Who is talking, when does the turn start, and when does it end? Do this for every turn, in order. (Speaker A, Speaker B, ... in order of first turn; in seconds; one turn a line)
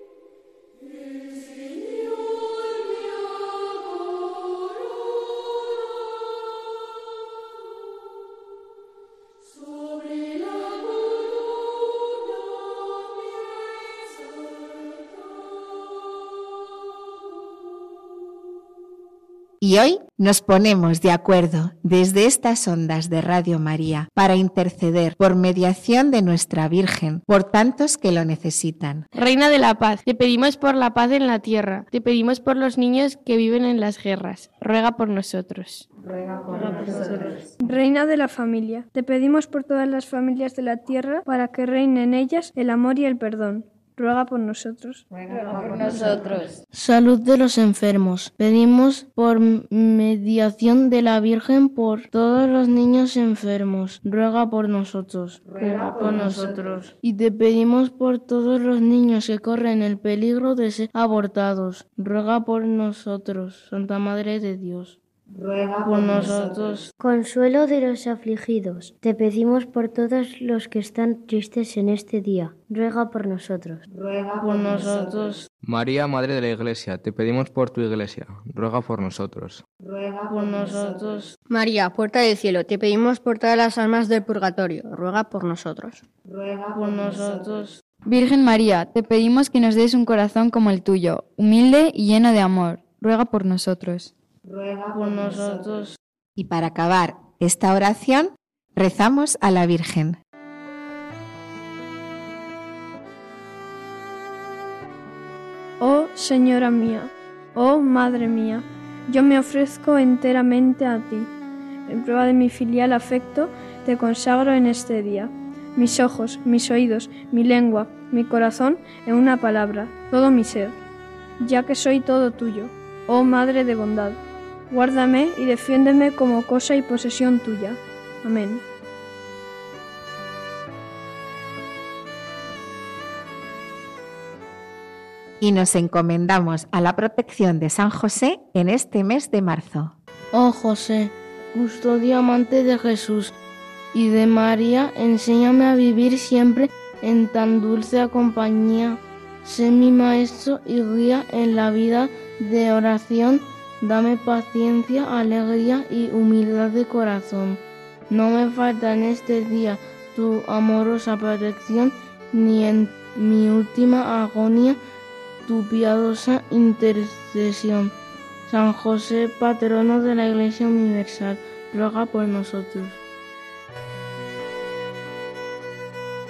Speaker A: 19.6-29.0
Speaker B: 29.1-35.9
Speaker C: 37.6-45.0
Speaker D: 45.4-46.6
Speaker E: 46.7-65.0
Speaker E: 65.8-66.9
Speaker F: 67.0-73.8
Speaker E: 74.3-75.5
Speaker G: 75.6-79.6
Speaker E: 80.2-81.3
Speaker H: 81.5-86.0
Speaker E: 86.7-87.8
Speaker D: 88.0-94.1
Speaker E: 94.8-96.0
Speaker A: 96.3-100.2
Speaker C: 105.8-111.3
Speaker C: 111.9-120.8
Speaker C: 121.4-128.6
Speaker A: 135.4-139.9
Speaker E: 140.3-143.3
Speaker E: 143.9-164.8
Speaker E: 165.4-167.9
Speaker E: 168.5-173.0